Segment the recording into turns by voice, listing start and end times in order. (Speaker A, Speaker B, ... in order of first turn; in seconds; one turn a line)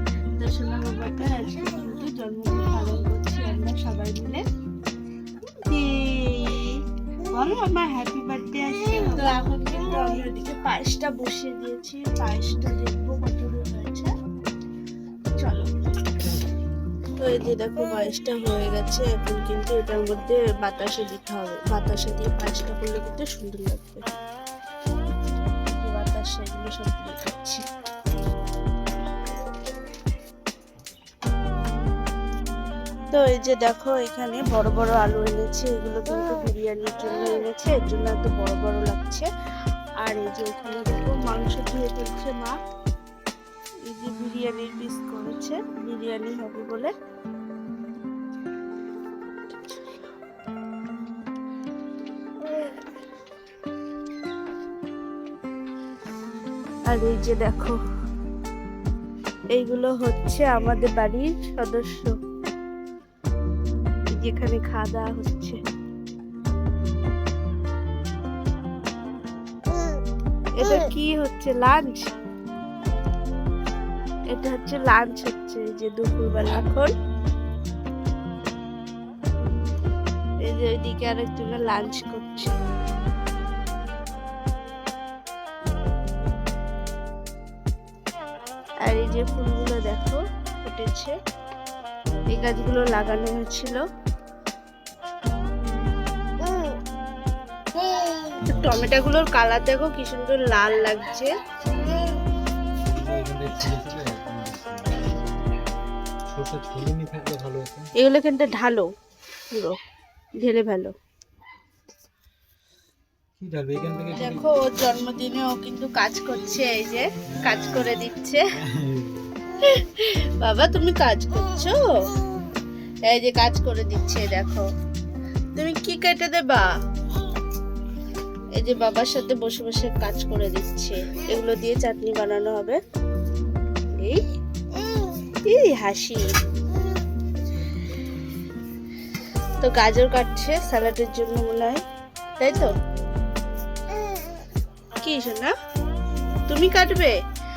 Speaker A: 0.4-4.4
Speaker A: 5.7-14.1
Speaker A: 15.4-15.7
Speaker A: 17.2-24.1
Speaker A: 25.6-27.6
Speaker A: 33.1-39.3
Speaker A: 40.0-42.6
Speaker A: 43.9-46.9
Speaker A: 49.5-50.0
Speaker A: 56.9-57.8
Speaker A: 59.5-62.1
Speaker A: 64.1-65.6
Speaker A: 70.6-72.1
Speaker A: 74.3-76.9
Speaker A: 80.4-82.5
Speaker A: 88.8-91.1
Speaker A: 92.3-93.8
Speaker A: 98.4-101.3
Speaker B: 98.6-98.8
Speaker B: 102.8-105.1
Speaker B: 106.3-107.9
Speaker A: 108.0-108.9
Speaker A: 109.5-109.8
Speaker A: 110.4-110.9
Speaker B: 113.4-114.5
Speaker A: 114.2-118.4
Speaker B: 117.3-118.0
Speaker B: 118.6-119.2
Speaker A: 119.6-122.1
Speaker A: 123.1-124.7
Speaker A: 125.5-126.7
Speaker A: 128.6-132.8
Speaker A: 133.9-134.2
Speaker A: 135.4-136.3
Speaker A: 139.6-141.8
Speaker A: 142.4-142.7
Speaker A: 145.0-145.5
Speaker A: 146.5-147.1